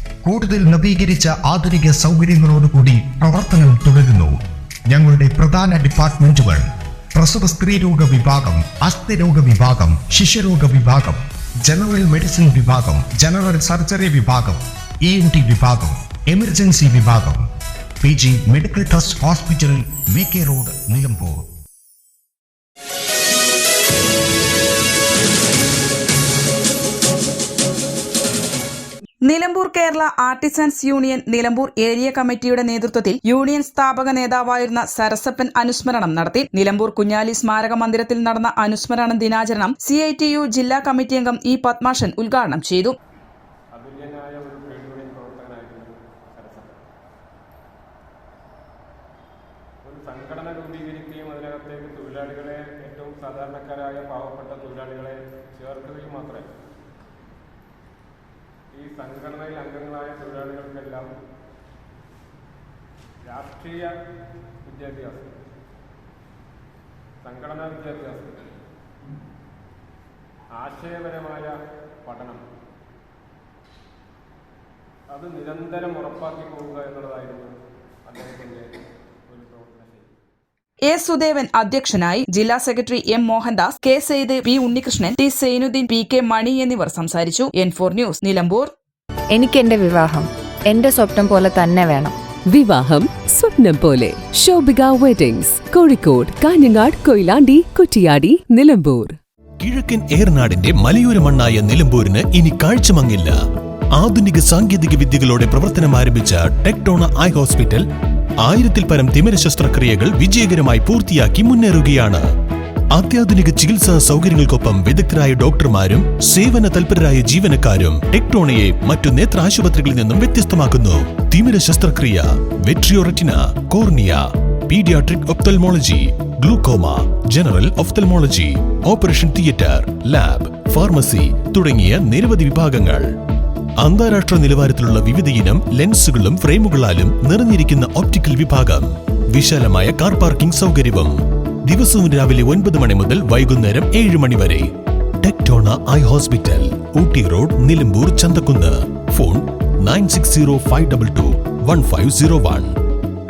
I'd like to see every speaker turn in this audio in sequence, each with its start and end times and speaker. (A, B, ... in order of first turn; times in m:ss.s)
0:00.2-0:04.4 A
0:04.9-0:17.4 A
0:18.0-0:21.4 A
0:29.2-0:43.0 B
0:43.7-0:46.7 C
0:49.8-0:56.5 C
0:58.7-1:01.1 C
1:03.2-1:03.9 C
1:04.6-1:05.3 C
1:07.2-1:08.4 C
1:10.6-1:12.4 C
1:15.1-1:20.1 C
1:20.9-1:28.7 B
1:29.3-1:32.2 D
1:32.5-1:39.2 E
1:39.6-1:43.4 F
1:44.0-1:47.8 F
1:48.4-1:52.3 F
1:52.9-2:13.1 F
2:13.8-2:21.2 F
2:21.7-2:24.7 F
2:25.2-2:32.8 F